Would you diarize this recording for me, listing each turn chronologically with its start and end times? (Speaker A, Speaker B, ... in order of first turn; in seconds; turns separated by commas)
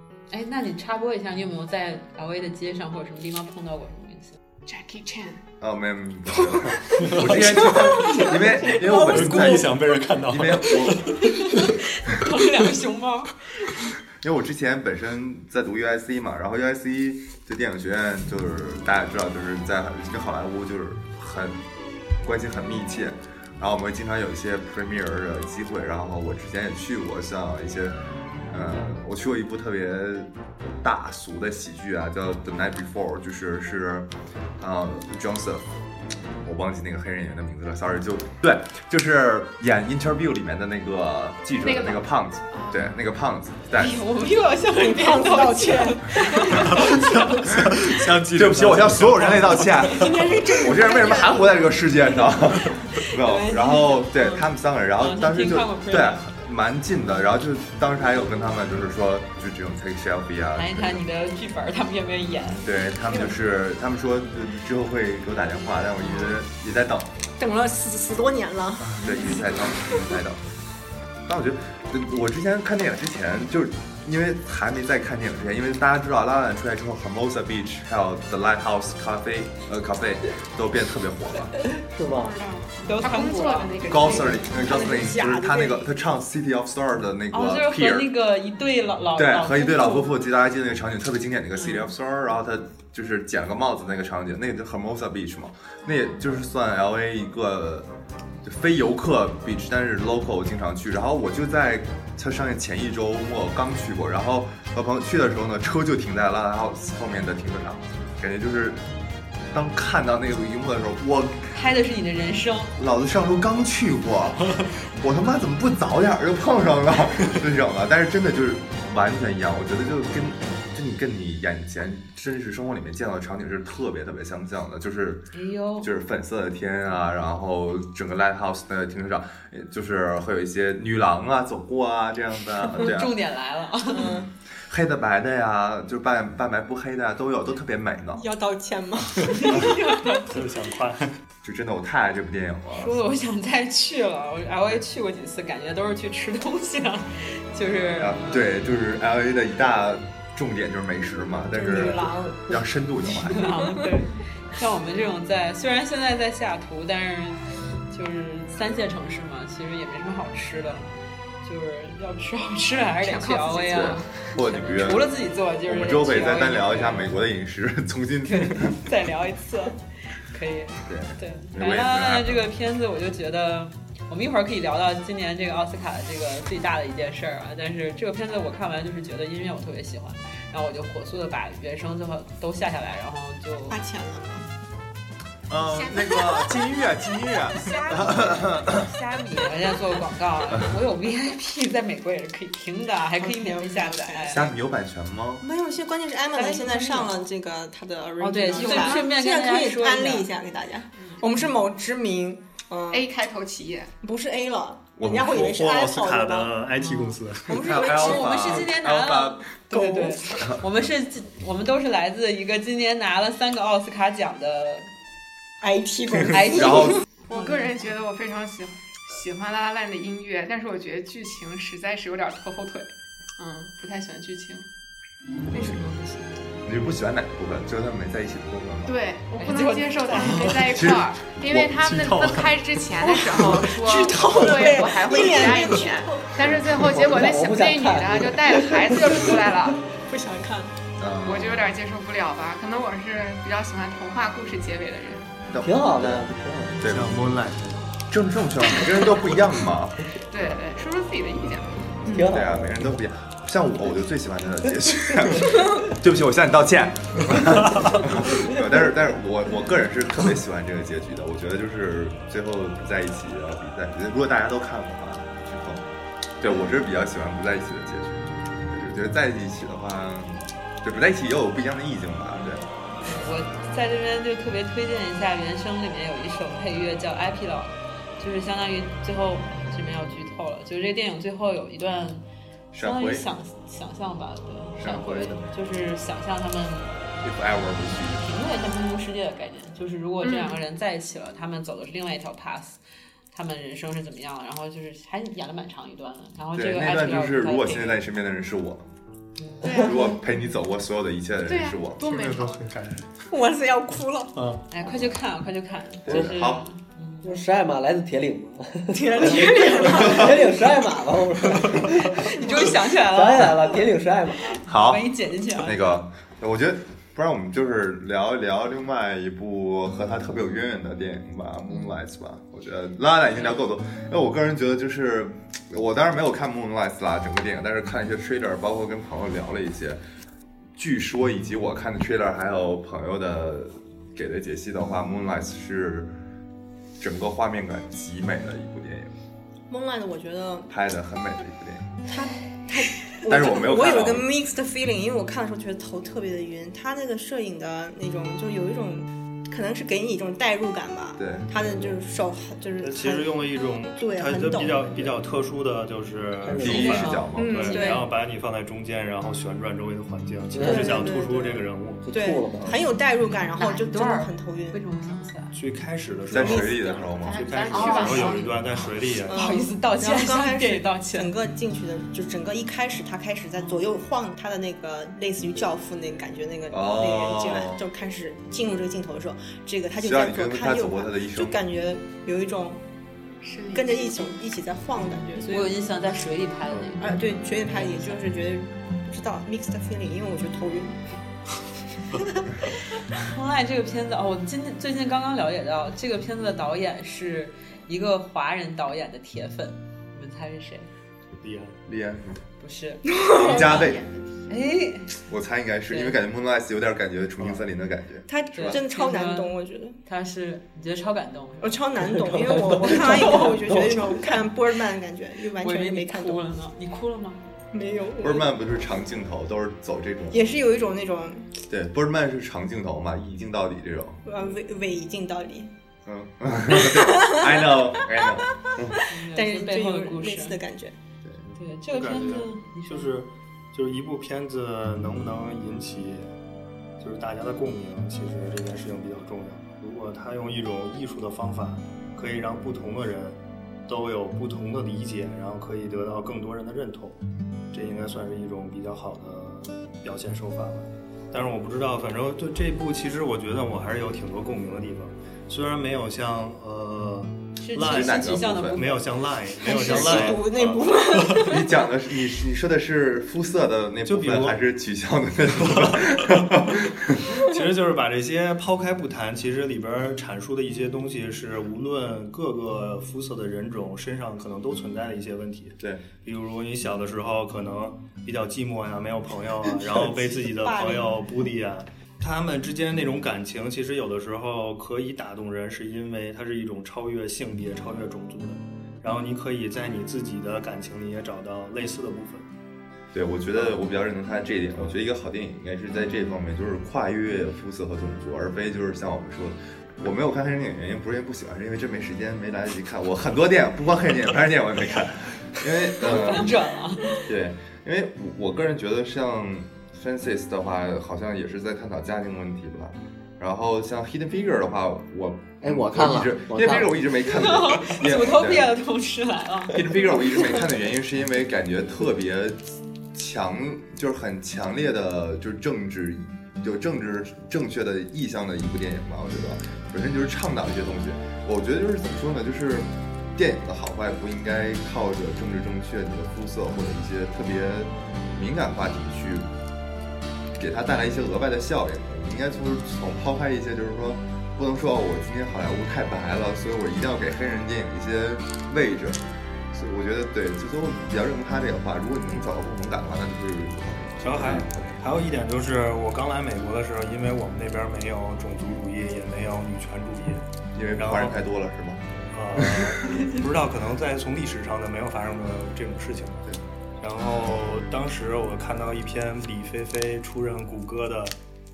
Speaker A: 0.3-4.4, Speaker B: 4.7-5.4, Speaker C: 5.6-11.2, Speaker D: 6.9-8.0, Speaker D: 8.7-11.5, Speaker A: 11.2-13.4, Speaker C: 14.2-21.6, Speaker C: 22.2-28.0, Speaker C: 28.5-35.7, Speaker C: 36.4-44.0, Speaker B: 41.6-42.9, Speaker A: 43.8-47.5, Speaker E: 44.7-46.9, Speaker D: 47.4-50.0, Speaker C: 47.4-61.0, Speaker E: 49.8-51.7, Speaker A: 52.6-54.4, Speaker A: 55.0-56.2, Speaker A: 60.5-62.6, Speaker C: 62.5-67.1, Speaker E: 67.4-70.0, Speaker C: 68.9-70.4, Speaker C: 71.3-81.5, Speaker F: 81.8-82.3, Speaker B: 82.1-84.6, Speaker A: 82.9-84.2, Speaker C: 83.9-88.1, Speaker E: 84.5-85.9, Speaker A: 87.3-90.1, Speaker C: 89.1-97.9, Speaker A: 91.6-91.9, Speaker C: 98.4-108.8, Speaker C: 109.5-111.5, Speaker A: 111.5-112.7, Speaker C: 112.8-133.1, Speaker A: 125.3-125.9, Speaker A: 132.8-134.1, Speaker E: 133.9-134.3, Speaker C: 134.6-138.2, Speaker E: 138.2-139.7, Speaker A: 139.2-140.4, Speaker D: 140.3-141.1, Speaker C: 141.4-142.9, Speaker A: 142.7-148.5, Speaker C: 148.0-153.6, Speaker E: 151.5-152.6, Speaker A: 153.2-167.1, Speaker B: 163.0-164.1, Speaker C: 163.7-165.1, Speaker C: 165.7-168.8, Speaker A: 168.2-183.8, Speaker C: 170.8-172.5, Speaker E: 183.7-184.4, Speaker C: 185.5-188.9, Speaker B: 185.7-186.3, Speaker A: 187.5-194.4, Speaker E: 193.1-194.5, Speaker C: 194.3-195.4, Speaker E: 195.4-203.1, Speaker A: 196.3-197.1, Speaker A: 198.2-200.3, Speaker B: 198.6-199.0, Speaker B: 202.9-203.9, Speaker E: 204.0-206.5, Speaker C: 205.0-205.6, Speaker D: 205.4-207.6, Speaker A: 206.8-214.9, Speaker E: 207.4-208.6, Speaker C: 207.5-209.9, Speaker E: 215.6-217.0, Speaker A: 216.3-217.9, Speaker C: 216.5-217.0, Speaker B: 217.3-224.7, Speaker B: 225.5-226.4, Speaker C: 226.6-229.0, Speaker B: 228.9-239.8, Speaker A: 229.4-230.4, Speaker C: 230.7-231.7, Speaker D: 231.8-232.6, Speaker E: 233.7-236.3, Speaker C: 236.4-236.7, Speaker F: 236.8-239.4, Speaker E: 240.1-240.7, Speaker C: 241.0-241.7, Speaker B: 241.2-245.3, Speaker C: 245.5-246.3, Speaker F: 245.6-246.8, Speaker C: 246.8-247.3, Speaker D: 246.8-247.9, Speaker C: 248.1-250.6, Speaker B: 250.3-252.3, Speaker F: 252.1-252.9, Speaker C: 252.2-265.8, Speaker C: 266.4-272.6, Speaker A: 273.0-282.2, Speaker C: 282.7-283.2, Speaker A: 282.8-286.9, Speaker C: 284.8-285.5, Speaker C: 287.2-288.3, Speaker A: 288.2-292.8, Speaker B: 290.2-290.6, Speaker A: 293.3-298.0, Speaker C: 296.5-298.9, Speaker A: 299.4-299.9, Speaker B: 299.6-300.2, Speaker C: 299.8-302.1, Speaker B: 301.4-302.6, Speaker D: 302.0-303.0, Speaker E: 303.3-304.3, Speaker D: 304.4-304.6, Speaker A: 304.7-307.4, Speaker C: 306.1-306.6, Speaker F: 307.2-314.6, Speaker E: 308.9-310.3, Speaker A: 311.9-313.9, Speaker A: 314.6-316.0, Speaker C: 314.7-330.0, Speaker C: 330.8-336.1, Speaker C: 337.0-339.1, Speaker E: 339.7-340.7, Speaker C: 340.7-341.9, Speaker E: 342.1-353.4, Speaker C: 343.2-344.3, Speaker C: 351.2-351.4, Speaker D: 352.8-362.0, Speaker E: 354.0-354.9, Speaker F: 356.4-357.1, Speaker C: 356.6-357.6, Speaker A: 356.7-358.0, Speaker E: 357.4-358.0, Speaker F: 360.5-361.2, Speaker E: 360.6-361.6, Speaker F: 362.0-362.8, Speaker E: 362.1-364.8, Speaker A: 363.2-365.6, Speaker D: 365.5-369.4, Speaker C: 366.3-367.5, Speaker E: 366.4-366.7, Speaker B: 367.2-368.8, Speaker A: 367.7-368.3, Speaker E: 367.7-368.0, Speaker E: 369.2-382.8, Speaker A: 369.3-371.3, Speaker C: 376.7-377.8, Speaker C: 380.0-381.6, Speaker B: 383.4-384.4, Speaker E: 383.7-385.8, Speaker A: 385.4-387.1, Speaker E: 387.0-391.0, Speaker A: 387.7-388.1, Speaker A: 393.1-400.9, Speaker D: 401.4-401.8, Speaker C: 401.9-402.4, Speaker A: 402.6-403.2, Speaker E: 403.1-403.6, Speaker B: 403.3-404.5, Speaker C: 403.3-404.0, Speaker A: 404.5-405.2, Speaker C: 405.3-408.8, Speaker A: 405.9-406.2, Speaker E: 408.3-410.0, Speaker A: 408.5-411.8, Speaker E: 411.6-416.4, Speaker F: 412.1-414.2, Speaker A: 413.0-413.5, Speaker A: 415.6-417.4, Speaker E: 417.7-418.5, Speaker C: 418.2-420.5, Speaker E: 420.3-421.6, Speaker C: 421.7-424.2, Speaker E: 424.2-425.7, Speaker C: 426.1-429.0, Speaker E: 426.8-427.9, Speaker E: 429.0-430.9, Speaker A: 429.1-430.6, Speaker C: 431.2-431.5, Speaker A: 431.6-433.1, Speaker D: 431.9-436.3, Speaker D: 437.0-447.2, Speaker D: 447.7-461.4, Speaker A: 457.6-459.1, Speaker C: 457.7-458.8, Speaker E: 459.6-461.7, Speaker C: 459.9-460.2, Speaker C: 461.4-467.4, Speaker D: 464.1-464.6, Speaker D: 465.6-466.2, Speaker D: 467.4-492.5, Speaker E: 479.9-481.2, Speaker C: 493.1-506.6, Speaker A: 506.0-507.2, Speaker C: 507.2-518.7, Speaker F: 515.6-516.9, Speaker A: 517.3-519.9, Speaker C: 519.7-522.6, Speaker C: 523.1-539.5, Speaker C: 540.6-554.9, Speaker D: 554.2-560.5, Speaker C: 560.7-562.0, Speaker D: 561.0-561.4, Speaker D: 562.3-566.4, Speaker C: 562.5-563.2, Speaker D: 567.0-571.4